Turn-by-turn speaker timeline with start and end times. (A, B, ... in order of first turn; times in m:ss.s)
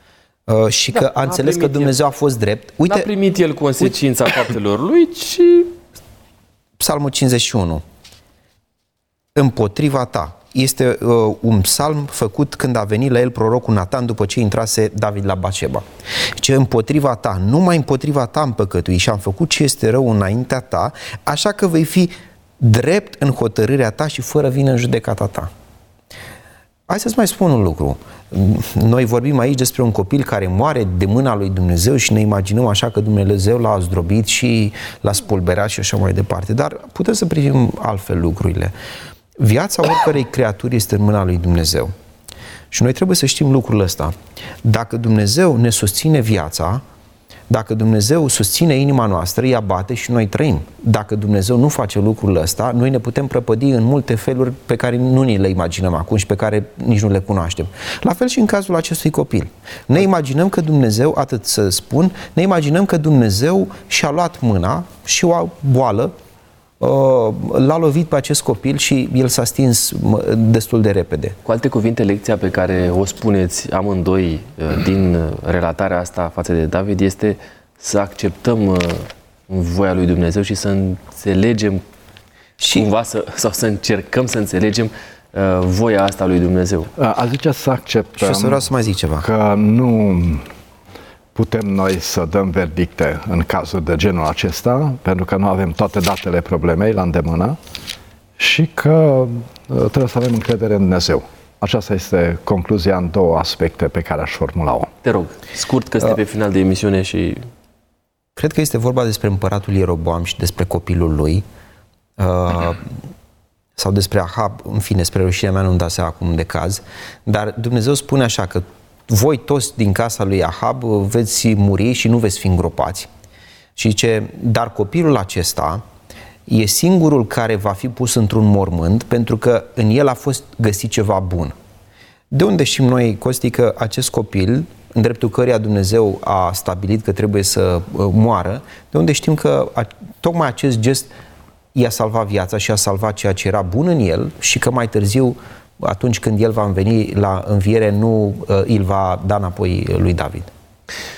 0:00.5-0:03.1 A
0:00.9-0:01.9 B
0:02.8-0:05.7 B
0:06.8-0:07.8 A
0:09.3-0:25.5 A
0:26.9-0:38.7 A
0:39.4-0:41.9 A
0:42.7-0:46.8 A
0:47.5-1:06.1 A
1:06.8-1:11.4 A
1:11.4-1:21.8 B
1:22.6-1:22.9 A
1:22.6-1:26.9 B
1:27.0-1:28.6 C
1:28.2-1:29.3 A
1:29.2-1:30.4 C
1:31.3-1:37.6 C
1:38.4-1:44.9 C
1:45.0-1:47.4 B
1:48.4-1:51.4 A
1:52.2-1:52.9 A
1:53.8-2:03.1 A
2:03.8-2:05.8 A
2:06.5-2:11.5 A
2:12.3-2:21.1 A
2:21.7-2:30.5 A